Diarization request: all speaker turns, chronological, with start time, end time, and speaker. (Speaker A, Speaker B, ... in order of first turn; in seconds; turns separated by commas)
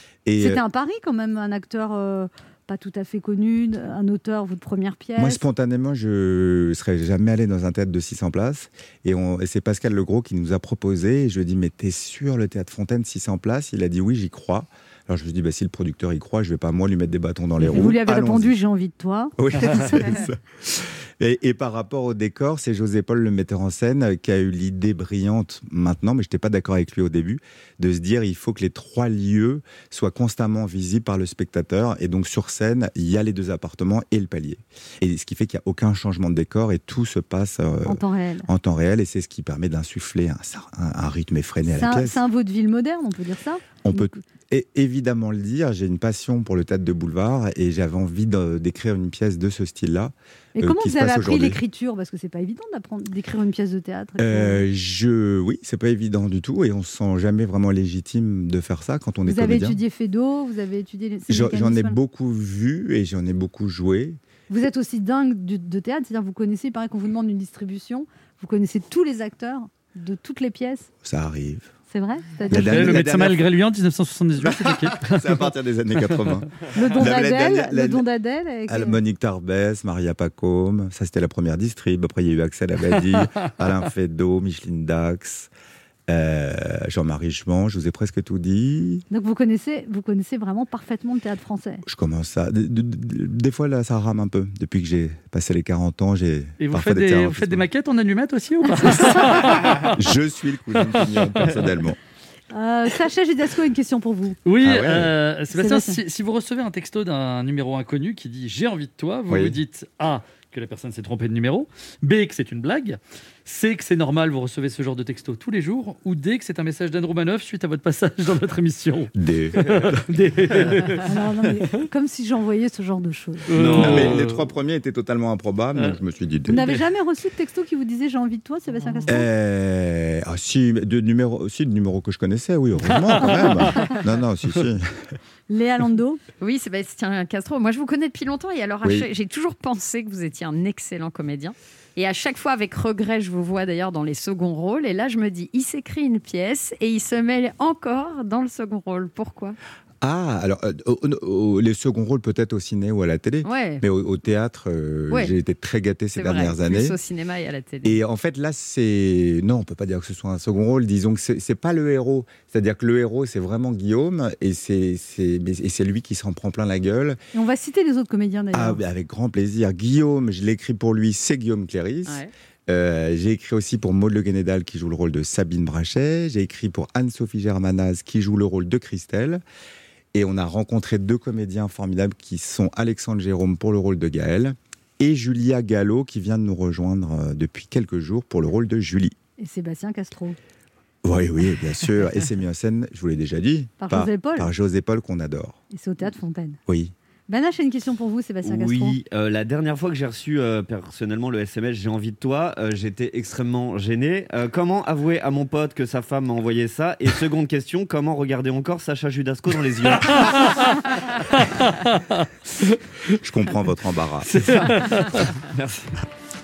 Speaker A: 0.2-0.6, Speaker B: 0.4-5.4, Speaker A: 5.2-18.6, Speaker B: 17.6-20.2, Speaker A: 19.4-42.2, Speaker B: 37.9-38.5, Speaker B: 41.6-44.1, Speaker A: 43.8-51.6, Speaker B: 50.5-54.6, Speaker A: 54.2-59.8, Speaker B: 59.3-62.0, Speaker A: 61.3-64.2, Speaker B: 64.5-70.9, Speaker A: 71.0-71.7, Speaker B: 71.9-73.0, Speaker A: 72.5-73.5, Speaker C: 72.5-76.2, Speaker A: 74.4-78.0, Speaker B: 76.7-79.0, Speaker A: 78.7-85.5, Speaker A: 86.1-89.0, Speaker B: 89.1-91.8, Speaker A: 91.8-97.7, Speaker C: 96.6-100.0, Speaker A: 99.2-102.0, Speaker C: 100.8-101.4, Speaker B: 102.5-104.4, Speaker C: 104.4-121.1, Speaker A: 104.6-105.1, Speaker B: 105.5-106.0, Speaker A: 109.3-109.6, Speaker A: 119.1-120.0, Speaker B: 121.0-123.5, Speaker C: 123.5-124.5, Speaker D: 123.5-124.2, Speaker A: 123.7-126.7, Speaker B: 126.5-129.3, Speaker A: 129.1-135.1, Speaker B: 135.5-136.2, Speaker E: 136.4-149.6, Speaker A: 138.8-139.1, Speaker A: 150.0-157.0, Speaker E: 153.4-153.8, Speaker E: 156.1-158.0, Speaker A: 157.8-167.2, Speaker B: 167.3-168.8, Speaker A: 168.5-179.4, Speaker E: 172.1-172.3, Speaker A: 180.1-189.1, Speaker B: 189.4-190.4, Speaker A: 191.0-195.6, Speaker B: 193.8-194.5, Speaker B: 195.7-196.6, Speaker A: 196.7-196.9, Speaker B: 197.3-199.0, Speaker D: 198.4-210.6, Speaker C: 209.9-210.8, Speaker C: 211.3-213.1, Speaker A: 213.2-214.3, Speaker C: 214.3-215.3, Speaker D: 215.4-216.0